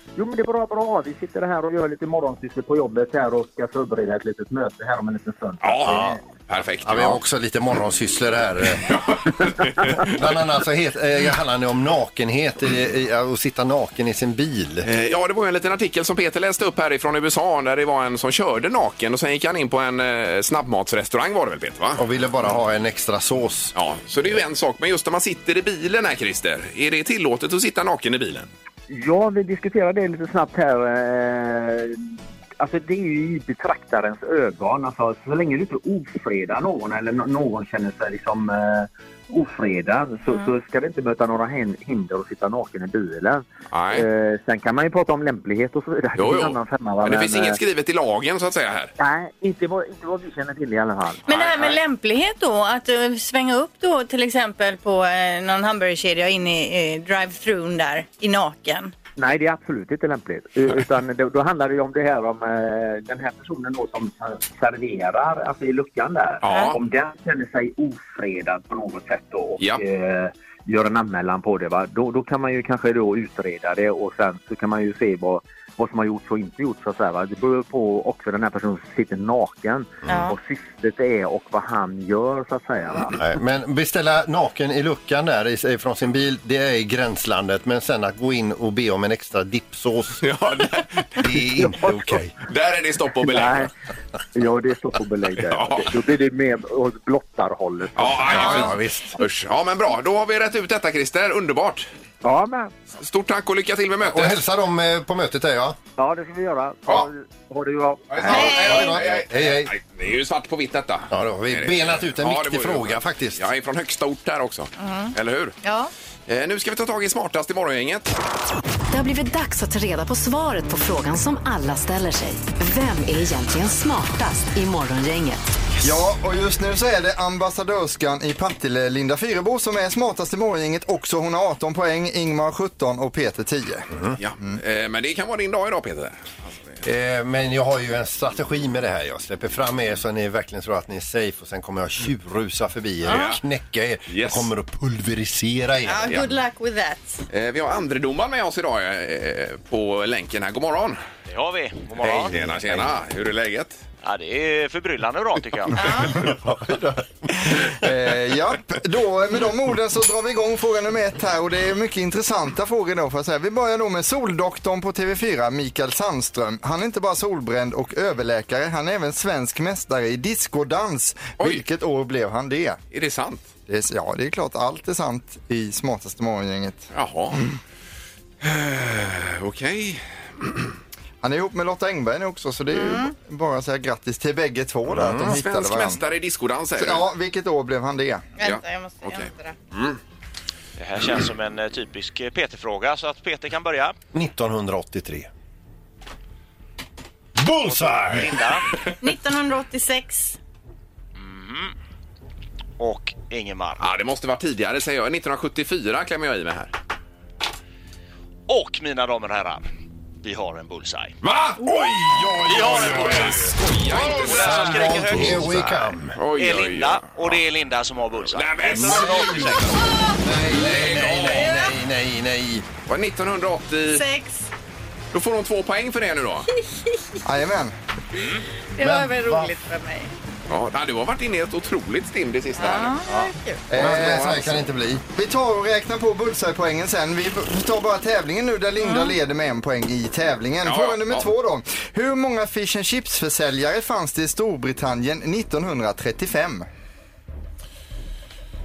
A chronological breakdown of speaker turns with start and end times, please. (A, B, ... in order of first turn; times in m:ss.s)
0:00.2-0:06.2 A
0:05.6-0:07.2 B
0:05.8-0:06.2 C
0:06.8-0:08.9 C
0:08.8-0:10.2 B
0:10.0-0:14.9 C
0:14.8-0:22.0 B
0:22.0-0:23.7 C
0:23.7-0:28.5 B
0:28.9-0:32.0 A
0:32.6-0:47.6 A
0:43.7-0:44.0 B
0:46.2-0:48.9 B
0:49.0-0:51.2 A
0:51.3-0:58.9 D
0:51.3-0:51.7 B
0:59.2-1:23.2 A
1:06.4-1:06.8 B
1:06.5-1:06.7 D
1:20.0-1:20.3 D
1:23.1-1:30.2 C
1:30.2-1:31.3 B
1:31.2-1:32.3 C
1:31.6-1:32.1 A
1:32.4-1:33.7 B
1:33.2-1:33.7 A
1:34.3-1:38.7 A
1:35.5-1:35.9 B
1:38.0-1:41.9 B
1:38.2-1:39.2 C
1:42.2-1:42.7 A
1:43.0-1:44.4 B
1:44.0-1:45.8 C
1:46.0-1:48.4 A
1:48.1-1:55.6 B
1:48.2-1:49.7 C
1:48.2-1:49.0 D
1:51.1-1:53.4 C
1:54.8-1:55.9 D
1:56.3-1:58.1 B
1:58.9-2:05.6 E
2:05.8-2:13.9 F
2:13.9-2:14.2 C
2:14.2-2:16.8 B
2:16.8-2:26.3 C
2:23.0-2:23.4 B
2:24.1-2:24.5 B
2:25.8-2:27.2 D
2:27.3-2:31.0 B
2:31.3-2:32.4 G
2:32.0-2:33.8 B
2:32.5-2:32.8 C
2:34.0-2:35.9 G
2:35.8-2:36.2 D
2:36.2-2:52.8 F
2:52.9-2:53.5 B
2:53.7-2:56.9 F
2:56.9-2:57.4 B
2:58.4-3:00.5 B
3:01.2-3:06.0 F
3:02.7-3:03.1 D
3:04.9-3:05.4 C
3:05.2-3:07.1 B
3:06.8-3:08.3 F
3:08.4-3:09.6 D
3:08.4-3:10.0 B
3:10.8-3:13.9 G
3:14.1-3:15.3 C
3:17.4-3:18.4 C
3:17.6-3:18.6 G
3:19.0-3:20.4 D
3:21.2-3:21.7 G
3:22.8-3:23.8 G
3:23.8-3:26.7 B
3:28.5-3:29.7 G
3:30.2-3:31.2 G
3:31.2-3:31.6 B
3:31.6-3:36.2 C
3:32.4-3:35.7 G
3:32.6-3:37.4 B
3:36.3-3:39.8 G
3:38.3-3:41.5 B
3:38.8-3:39.6 C
3:40.2-3:42.7 C
3:41.3-3:41.7 D
3:42.8-3:44.0 B
3:43.9-3:44.5 D
3:45.1-3:46.5 B
3:46.6-3:47.2 D
3:47.2-3:47.7 F
3:48.8-3:50.1 D
3:48.8-3:49.5 C
3:50.5-3:53.0 B
3:52.6-3:53.6 D
3:53.7-3:54.5 F
3:53.8-3:55.0 C
3:53.8-3:54.4 B
3:55.1-4:06.7 F
3:58.8-3:59.1 D
4:00.6-4:01.3 B